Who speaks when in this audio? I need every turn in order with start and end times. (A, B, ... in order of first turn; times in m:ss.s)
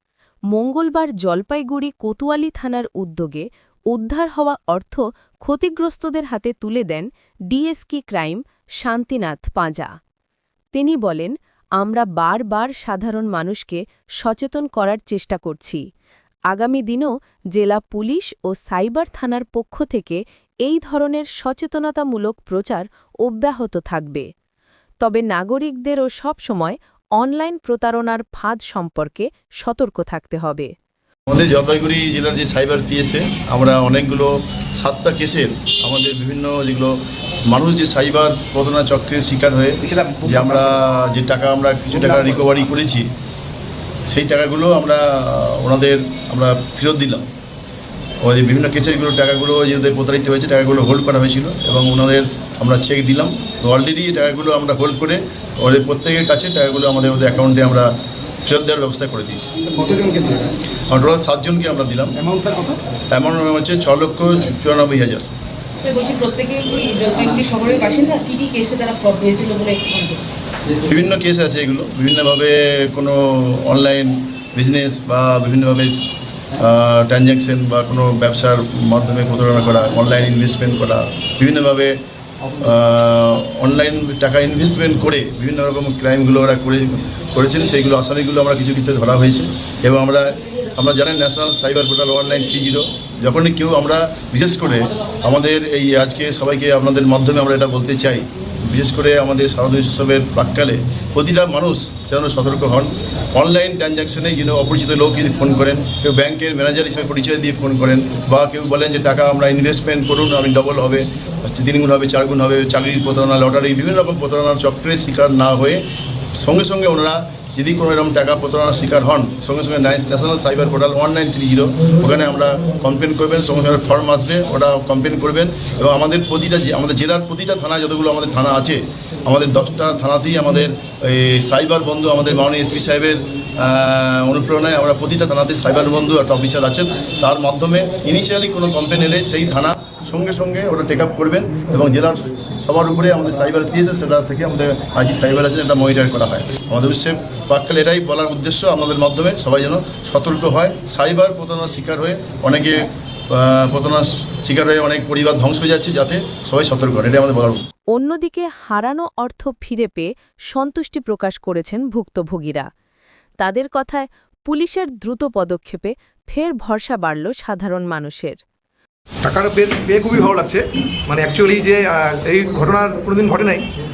0:00.5-0:09.9 A
0:10.7-0:15.8 A
0:16.5-0:24.3 A
0:25.0-0:30.7 A
0:31.3-0:36.9 B
0:37.5-0:43.0 B
0:44.1-0:47.3 B
0:48.2-0:57.9 B
0:58.4-0:59.5 B
0:59.8-1:00.2 C
1:00.9-1:02.2 B
1:03.1-1:05.2 B
1:05.8-1:10.3 D
1:10.8-1:22.0 B
1:22.6-1:55.8 B
1:56.3-2:37.6 B
2:37.9-2:42.7 A
2:43.4-2:48.4 A
2:49.2-2:53.6 C